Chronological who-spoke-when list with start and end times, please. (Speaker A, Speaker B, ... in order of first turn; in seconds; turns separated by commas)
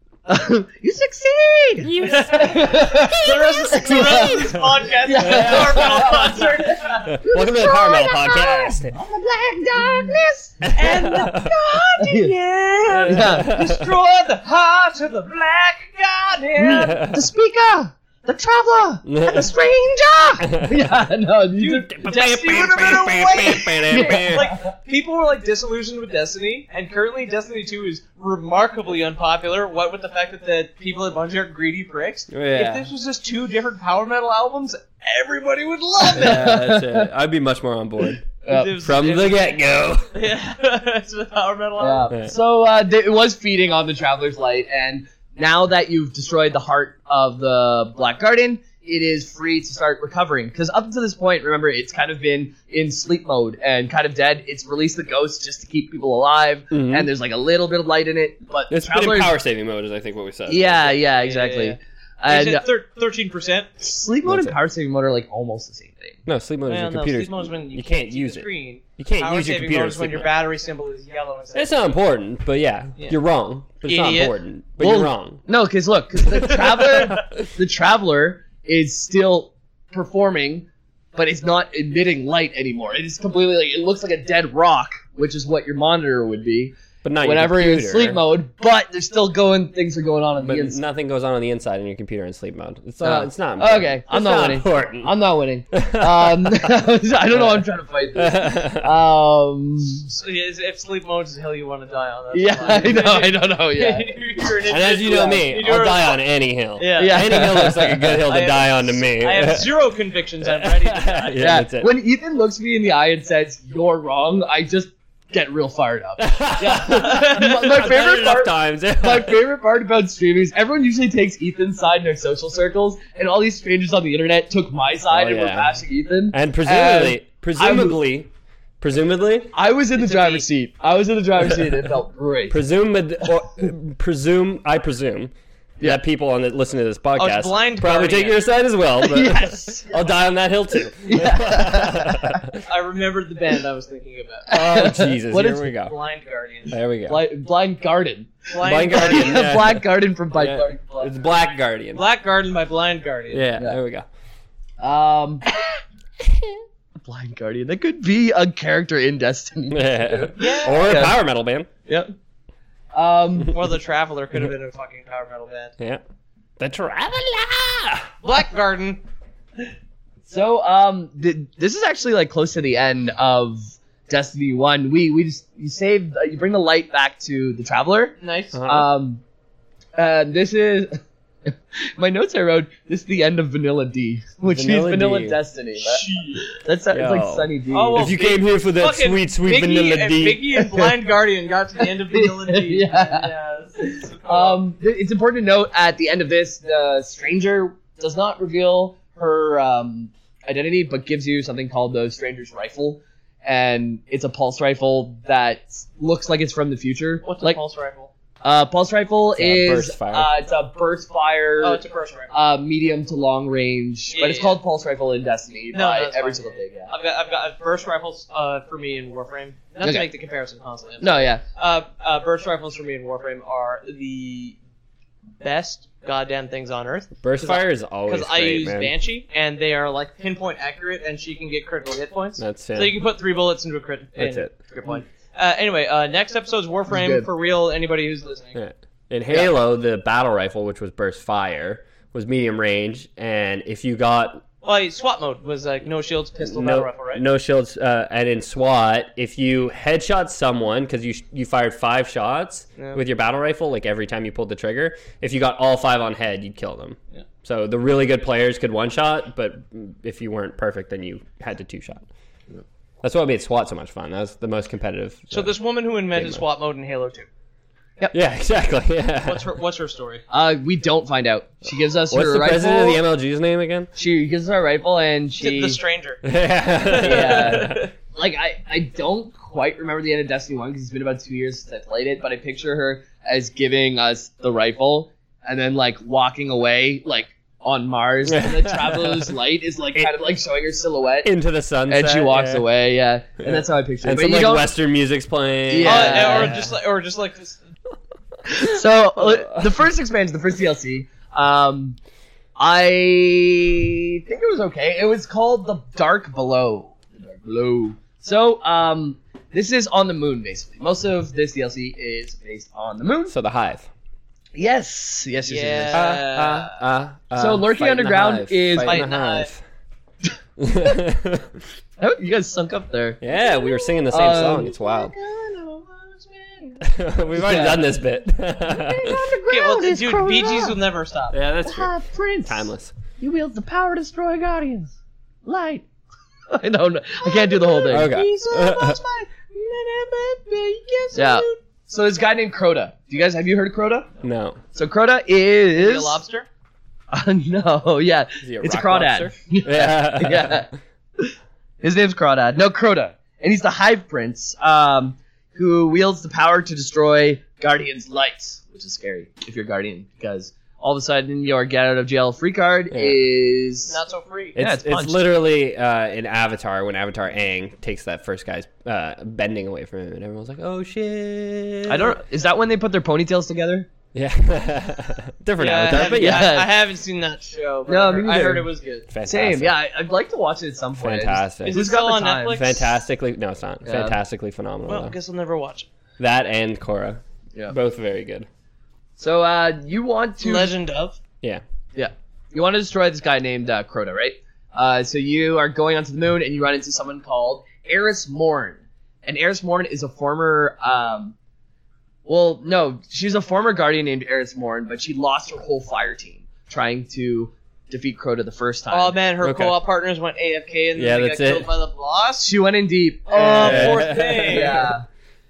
Speaker A: 0.3-4.4, Speaker B: 1.8-6.3, Speaker C: 2.0-7.1, Speaker A: 5.0-10.8, Speaker B: 7.0-8.9, Speaker B: 10.7-11.5, Speaker C: 10.7-17.0, Speaker A: 12.0-12.3, Speaker B: 12.9-13.9, Speaker A: 13.0-13.6, Speaker A: 16.6-21.9, Speaker B: 16.8-17.2, Speaker B: 19.1-19.5, Speaker B: 20.4-20.8, Speaker C: 21.6-36.5, Speaker B: 21.9-24.5, Speaker A: 23.9-24.6, Speaker B: 32.3-32.9, Speaker B: 36.1-40.1, Speaker A: 36.1-37.1, Speaker A: 38.5-38.8, Speaker C: 38.5-39.5, Speaker C: 40.1-42.1, Speaker A: 41.8-59.4, Speaker B: 56.7-57.1, Speaker B: 58.7-60.9, Speaker A: 60.5-62.6, Speaker C: 61.1-63.8, Speaker A: 63.8-66.2, Speaker B: 64.2-64.5, Speaker B: 66.2-70.3, Speaker C: 66.7-71.8, Speaker B: 71.5-75.4, Speaker C: 73.8-74.3, Speaker A: 74.8-90.8, Speaker B: 76.3-77.4, Speaker B: 87.0-88.2, Speaker B: 90.4-95.2, Speaker A: 93.0-100.1, Speaker B: 95.7-96.7, Speaker B: 97.3-98.9, Speaker C: 100.1-106.2, Speaker A: 102.3-104.2, Speaker B: 104.7-109.7, Speaker C: 106.8-107.4, Speaker A: 107.0-108.2, Speaker C: 108.2-111.4, Speaker B: 110.4-111.9, Speaker A: 111.4-128.0, Speaker B: 116.2-119.4, Speaker C: 116.8-117.8, Speaker B: 125.1-125.7, Speaker B: 126.3-128.3, Speaker B: 128.8-129.5, Speaker A: 129.5-132.6, Speaker C: 129.9-130.4, Speaker B: 132.5-142.6, Speaker C: 137.2-138.4, Speaker A: 139.0-140.0, Speaker A: 141.1-142.4, Speaker C: 142.6-144.6, Speaker A: 144.5-145.7, Speaker B: 144.5-145.9, Speaker C: 145.8-146.7, Speaker B: 146.7-147.2, Speaker A: 147.1-151.2, Speaker C: 148.5-149.4, Speaker B: 148.6-152.0, Speaker C: 151.9-153.5, Speaker B: 153.3-154.0, Speaker A: 154.8-155.5, Speaker A: 157.0-161.2, Speaker B: 159.7-161.7, Speaker C: 160.4-161.1, Speaker A: 161.9-162.1, Speaker A: 162.9-163.5, Speaker C: 163.5-165.7, Speaker B: 166.6-168.1, Speaker C: 168.2-169.0, Speaker A: 170.2-179.2, Speaker C: 178.2-178.6, Speaker B: 178.5-178.9, Speaker A: 179.9-188.1, Speaker B: 184.5-185.4, Speaker C: 185.8-186.5, Speaker B: 186.9-190.6, Speaker C: 187.7-194.6, Speaker A: 192.1-193.3, Speaker A: 194.2-207.6, Speaker C: 207.2-208.1, Speaker A: 208.4-216.9, Speaker B: 209.3-210.3, Speaker C: 211.6-212.3, Speaker C: 214.1-214.6, Speaker C: 215.7-224.6, Speaker A: 219.8-220.1, Speaker A: 221.0-221.4, Speaker C: 225.4-238.6, Speaker B: 227.2-228.9, Speaker B: 232.4-233.0, Speaker B: 234.2-234.5, Speaker A: 236.9-237.3, Speaker B: 238.5-244.4, Speaker C: 244.6-247.2, Speaker B: 246.4-262.0, Speaker B: 263.0-265.6, Speaker C: 265.3-267.3, Speaker B: 266.1-266.4, Speaker B: 268.1-269.5, Speaker C: 269.2-270.2, Speaker A: 270.3-273.0, Speaker B: 272.1-273.9, Speaker A: 274.0-275.8, Speaker C: 275.4-276.2, Speaker B: 276.2-277.8, Speaker C: 276.8-277.9, Speaker A: 276.9-291.3, Speaker B: 288.3-289.3, Speaker B: 291.2-292.7, Speaker A: 291.9-294.7, Speaker B: 293.4-296.7, Speaker A: 295.7-296.5, Speaker C: 295.8-297.6, Speaker A: 298.5-302.0, Speaker B: 299.2-299.7, Speaker A: 302.6-313.3, Speaker B: 313.3-313.9, Speaker A: 314.5-316.3, Speaker C: 315.4-316.7, Speaker B: 315.9-319.6, Speaker A: 317.3-319.1, Speaker C: 318.8-319.5, Speaker B: 320.6-321.5, Speaker A: 322.0-326.8, Speaker B: 323.2-325.1, Speaker C: 326.1-326.7, Speaker B: 326.8-329.3, Speaker A: 327.3-328.0, Speaker A: 328.6-330.8, Speaker C: 329.5-331.3, Speaker B: 331.3-331.9, Speaker A: 331.6-334.9, Speaker B: 332.4-332.9, Speaker A: 335.4-335.8, Speaker A: 336.5-338.1, Speaker C: 337.2-341.6, Speaker B: 337.9-339.0, Speaker A: 341.1-344.1, Speaker B: 344.2-344.6, Speaker A: 344.7-346.2, Speaker C: 345.7-346.5, Speaker A: 347.1-364.0, Speaker B: 348.4-350.7, Speaker B: 362.9-363.2, Speaker C: 363.9-364.5, Speaker B: 364.5-372.2, Speaker A: 364.6-365.2, Speaker A: 371.9-373.9, Speaker B: 374.1-376.6, Speaker C: 375.6-379.1, Speaker A: 375.9-376.7, Speaker A: 377.9-378.7, Speaker B: 379.1-379.8, Speaker A: 379.2-382.8, Speaker B: 381.0-381.8, Speaker C: 381.6-382.8, Speaker B: 382.5-385.1, Speaker A: 383.8-384.2, Speaker C: 384.9-385.9, Speaker B: 386.2-388.5, Speaker A: 389.2-390.7, Speaker C: 390.4-391.2, Speaker A: 391.9-401.3, Speaker A: 402.2-409.2, Speaker C: 408.9-412.5, Speaker B: 409.4-409.8, Speaker B: 410.9-411.7, Speaker A: 412.4-415.0, Speaker C: 413.3-414.9, Speaker B: 413.4-414.8